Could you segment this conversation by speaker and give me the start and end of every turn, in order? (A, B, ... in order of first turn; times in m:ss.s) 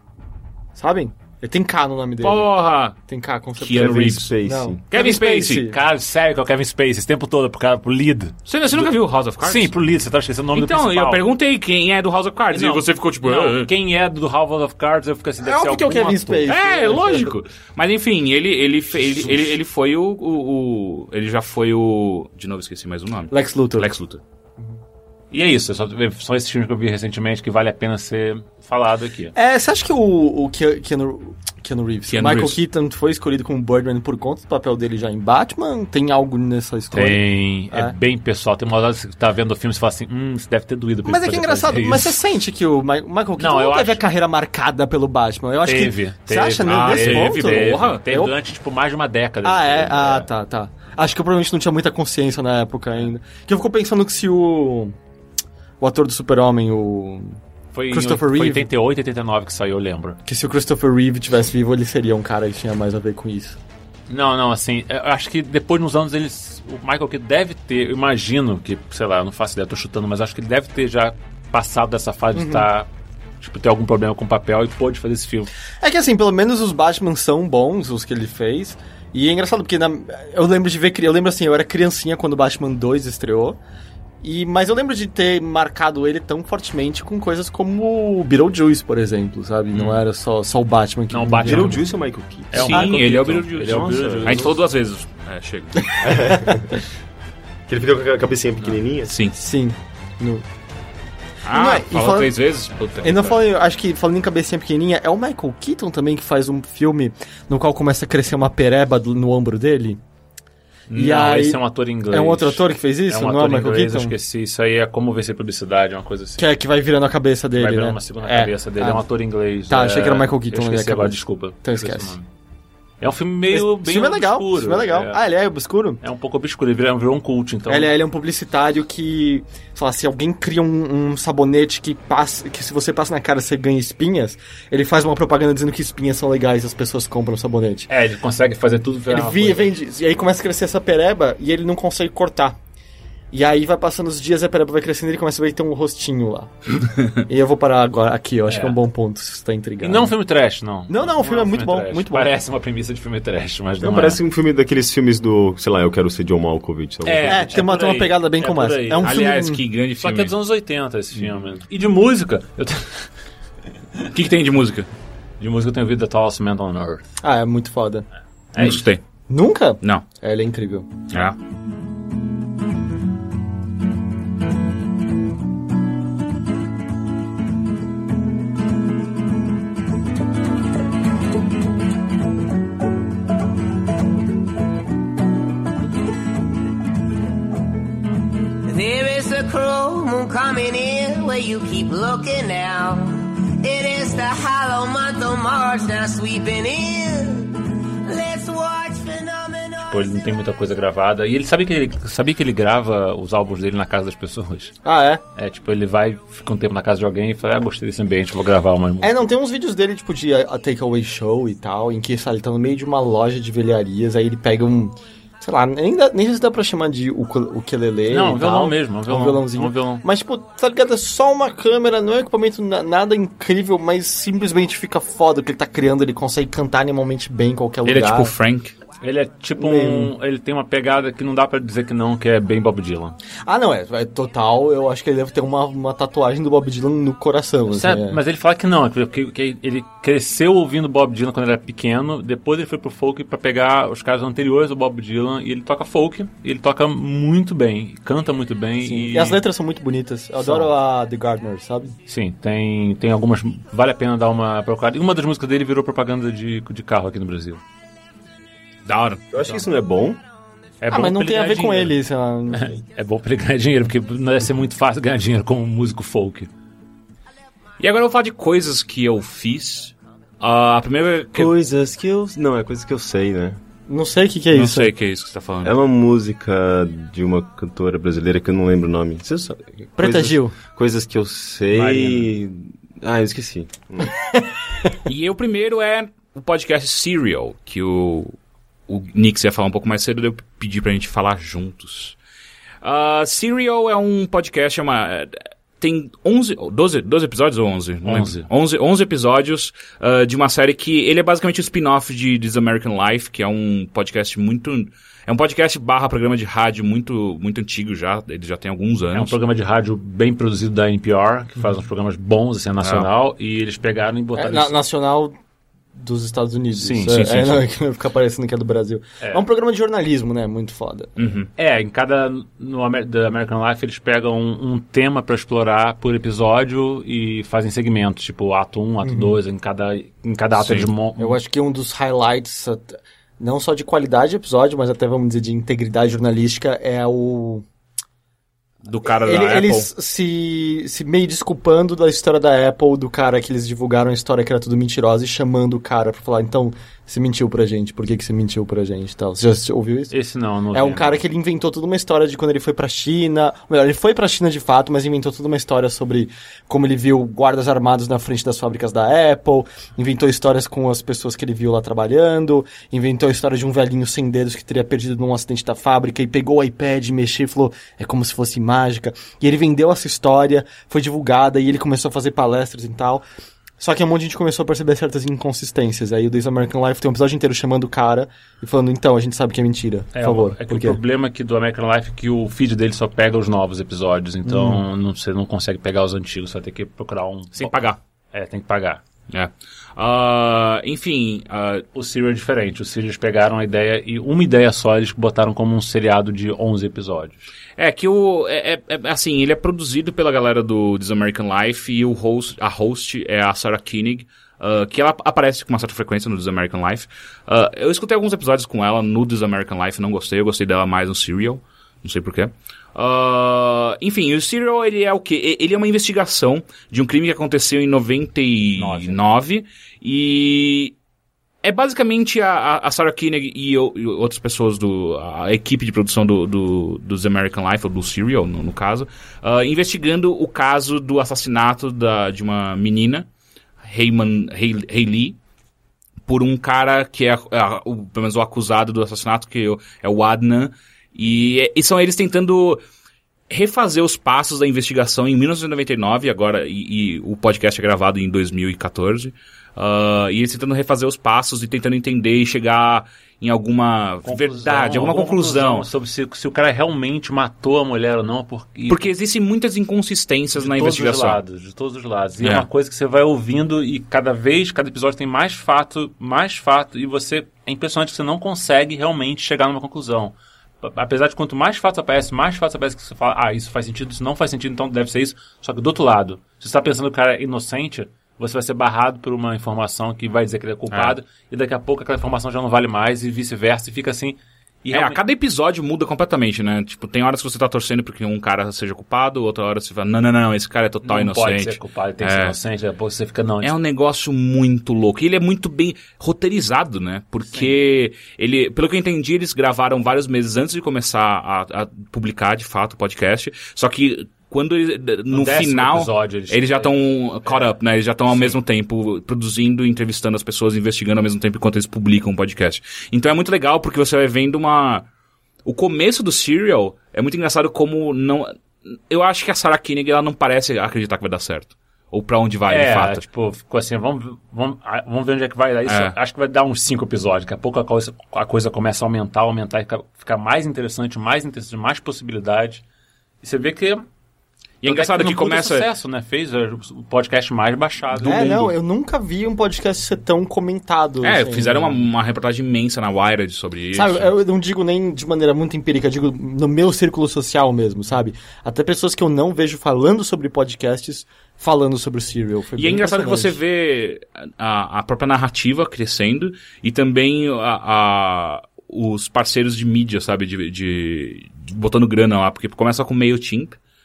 0:00.7-0:02.5 A
0:02.2-0:03.0 B
0:03.1-0:05.8 A
0:03.6-0:04.3 B
0:03.7-0:04.8 C
0:04.9-0:05.7 B
0:05.6-0:11.2 D
0:08.5-0:09.7 B
0:10.5-0:13.7 B
0:12.5-0:16.5 D
0:15.4-0:17.3 A
0:16.5-0:24.2 B
0:23.3-0:23.9 A
0:25.3-0:29.3 D
0:29.3-0:37.9 A
0:32.1-0:32.6 B
0:36.9-0:42.2 D
0:41.0-0:48.3 A
0:43.4-0:44.0 D
0:45.6-0:50.3 D
0:46.6-0:48.2 B
0:49.4-0:54.9 A
0:55.8-0:57.4 A
0:57.7-1:00.2 D
0:57.9-0:58.7 A
1:00.2-1:03.6 A
1:04.1-1:12.9 D
1:12.3-1:12.7 A
1:13.4-1:15.5 D
1:15.8-1:23.6 A
1:24.2-1:31.8 A
1:31.1-1:31.9 D
1:31.4-1:33.0 C
1:32.5-1:34.6 D
1:32.5-1:36.1 B
1:33.7-1:34.5 C
1:35.9-1:36.6 A
1:36.0-1:36.8 C
1:37.7-1:39.2 C
1:39.1-1:39.4 B
1:39.3-1:40.4 A
1:41.4-1:43.5 B
1:41.5-1:42.3 A
1:43.0-1:50.0 A
1:50.9-1:56.5 D
1:50.9-1:54.1 A
1:56.4-1:59.0 A
1:57.5-2:02.3 D
1:59.7-2:02.1 A
2:03.0-2:05.2 D
2:03.5-2:06.0 A
2:06.0-2:07.9 D
2:07.7-2:17.9 A
2:17.9-2:19.7 D
2:19.1-2:22.6 A
2:23.3-2:26.5 A
2:27.2-2:30.2 A
2:28.5-2:28.8 D
2:29.8-2:34.2 D
2:30.9-2:32.3 A
2:33.8-2:37.6 C
2:37.0-2:39.2 D
2:37.2-2:39.6 A
2:39.0-2:40.3 B
2:40.0-2:43.1 D
2:44.1-2:44.9 B
2:45.4-2:47.2 D
2:47.2-2:48.1 A
2:48.5-2:48.8 D
2:48.6-2:49.0 B
2:49.3-2:50.9 A
2:51.1-2:51.4 B
3:08.7-3:20.2 E
3:19.9-3:24.7 D
3:24.8-3:25.2 A
3:25.4-3:29.1 D
3:29.0-3:48.3 A
3:38.1-3:40.0 D
3:47.8-3:48.7 B
3:49.0-3:53.2 D
3:49.6-3:50.1 A
3:53.4-3:58.2 A
3:57.7-4:09.4 D
4:08.8-4:12.0 A
4:10.4-4:10.7 D
4:12.1-4:17.6 D
4:18.8-4:19.3 B
4:19.3-4:20.2 C
4:20.8-4:22.0 D
4:20.9-4:22.7 A
4:22.5-4:26.5 D
4:27.8-4:31.5 B
4:31.3-4:33.6 C
4:33.9-4:34.9 A
4:34.5-4:35.7 B
4:35.6-4:44.1 C
4:40.0-4:40.5 A
4:41.7-4:42.3 D
4:45.0-4:48.4 B
4:48.9-4:52.2 B
4:52.8-5:09.4 B
4:58.0-4:58.5 D
5:09.1-5:14.7 D
5:12.8-5:13.1 B
5:14.4-5:15.4 A
5:16.0-5:21.2 A
5:16.7-5:17.6 D
5:21.2-5:21.5 B
5:21.6-5:31.4 D
5:29.0-5:29.4 A
5:30.6-5:30.9 B
5:31.2-5:37.6 A
5:38.8-5:39.9 B
5:39.0-5:50.1 A
5:50.1-5:51.2 D
5:50.7-6:13.2 A
6:13.8-6:21.0 A
6:20.1-6:27.8 D
6:24.4-6:24.8 A
6:27.6-6:28.0 B
6:28.3-6:29.0 D
6:29.3-6:31.8 B
6:31.9-6:37.5 D
6:37.8-7:00.9 B
6:58.8-6:59.2 D
7:01.6-7:13.3 B
7:13.8-7:15.4 B
7:16.3-7:22.8 B
7:23.5-7:35.9 B
7:34.2-7:39.1 D
7:38.9-7:41.4 B
7:40.5-8:05.2 D
7:42.4-7:42.7 B
8:00.9-8:01.2 B
8:04.9-8:12.6 B
8:11.0-8:13.7 D
8:13.6-8:35.0 B
8:25.3-8:27.7 D
8:28.3-8:28.6 D
8:35.6-8:38.5 B
8:39.1-8:43.2 B
8:42.7-8:52.8 D
8:45.8-8:46.1 B
8:53.4-8:54.0 D
8:54.8-8:55.9 B
8:54.8-8:58.7 D
8:58.1-9:02.0 A
9:01.2-9:04.3 B
9:03.9-9:13.6 A
9:12.8-9:23.8 B